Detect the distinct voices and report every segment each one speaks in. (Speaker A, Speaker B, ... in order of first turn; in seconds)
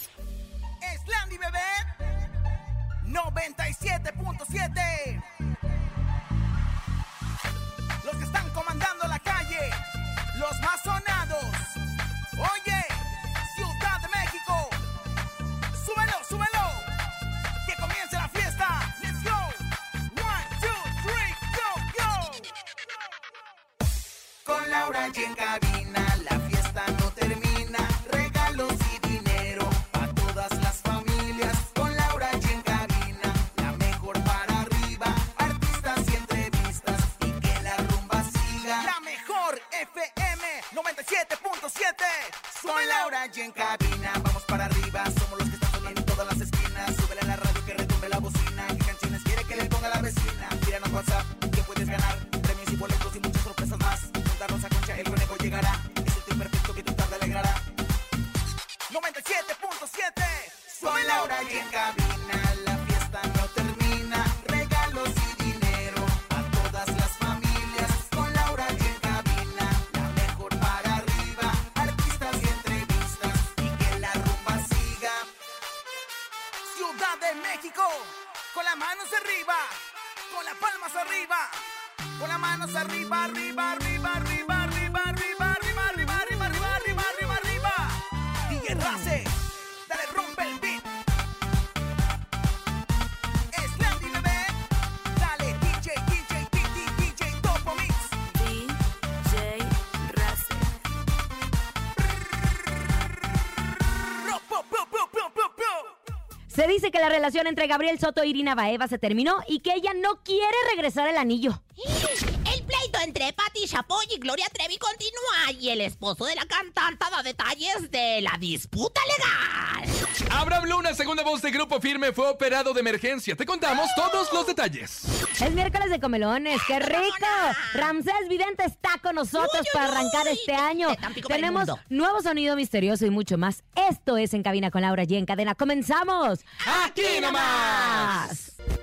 Speaker A: 0.8-1.9, 3.0-5.2, 8.0-9.8, 10.3-11.7, 12.4-14.8, 15.7-16.9, 17.7-19.5, 20.1-22.4, 24.4-57.6, 58.9-75.3, 76.7-79.8, 80.3-81.6, 82.2-88.0, 88.5-89.3, 89.9-90.8, 93.5-94.5, 95.2-98.2, 104.2-105.8
Speaker B: 98.3-100.8
Speaker C: 106.5-111.6, 125.4-138.5
Speaker D: 111.8-120.1, 126.5-127.9, 129.4-131.8, 136.6-138.1
Speaker E: 120.3-125.1, 136.6-138.2